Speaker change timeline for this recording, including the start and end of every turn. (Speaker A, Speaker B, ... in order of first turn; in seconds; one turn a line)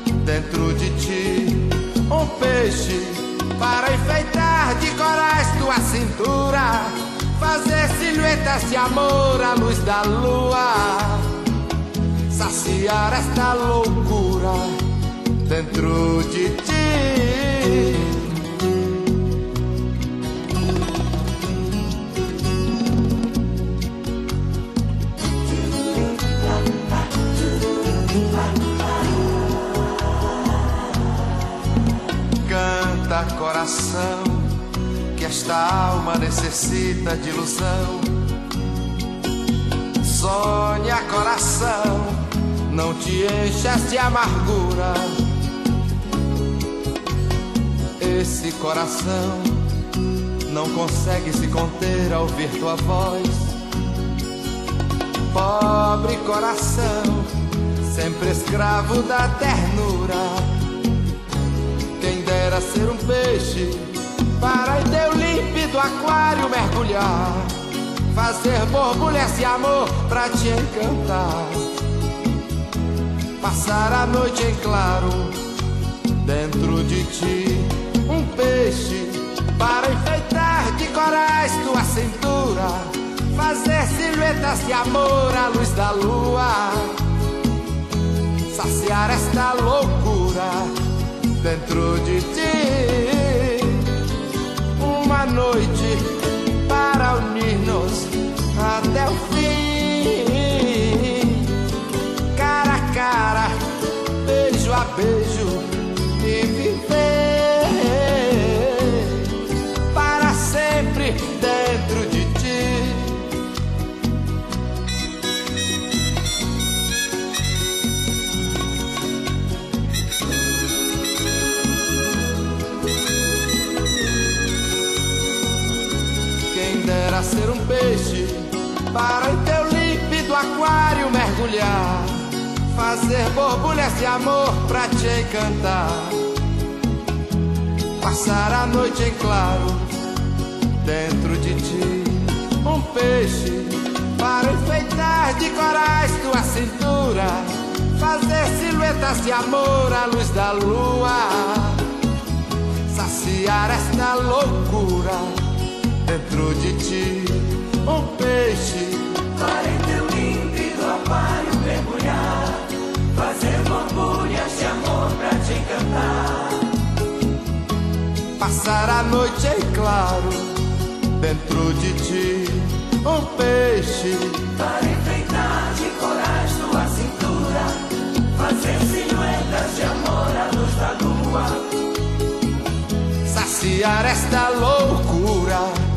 Speaker A: 0.2-11.4
Speaker A: 12.3-14.8
Speaker A: 15.4-18.2
Speaker A: 32.4-34.6
Speaker A: 35.1-38.1
Speaker A: 40.0-45.2
Speaker A: 48.0-49.6
Speaker A: 50.5-53.6
Speaker A: 55.3-60.5
Speaker A: 62.0-67.5
Speaker A: 68.1-71.7
Speaker A: 73.4-75.4
Speaker A: 76.2-87.0
Speaker A: 88.5-90.7
Speaker A: 91.4-93.9
Speaker A: 94.8-101.5
Speaker A: 102.3-103.6
Speaker A: 104.2-109.3
Speaker A: 109.9-113.3
Speaker A: 126.5-136.2
Speaker A: 138.0-140.0
Speaker A: 140.8-151.8
Speaker A: 152.9-155.4
Speaker A: 156.1-166.4
Speaker A: 168.4-170.6
Speaker A: 171.2-177.8
Speaker A: 178.4-181.6
Speaker A: 183.2-185.8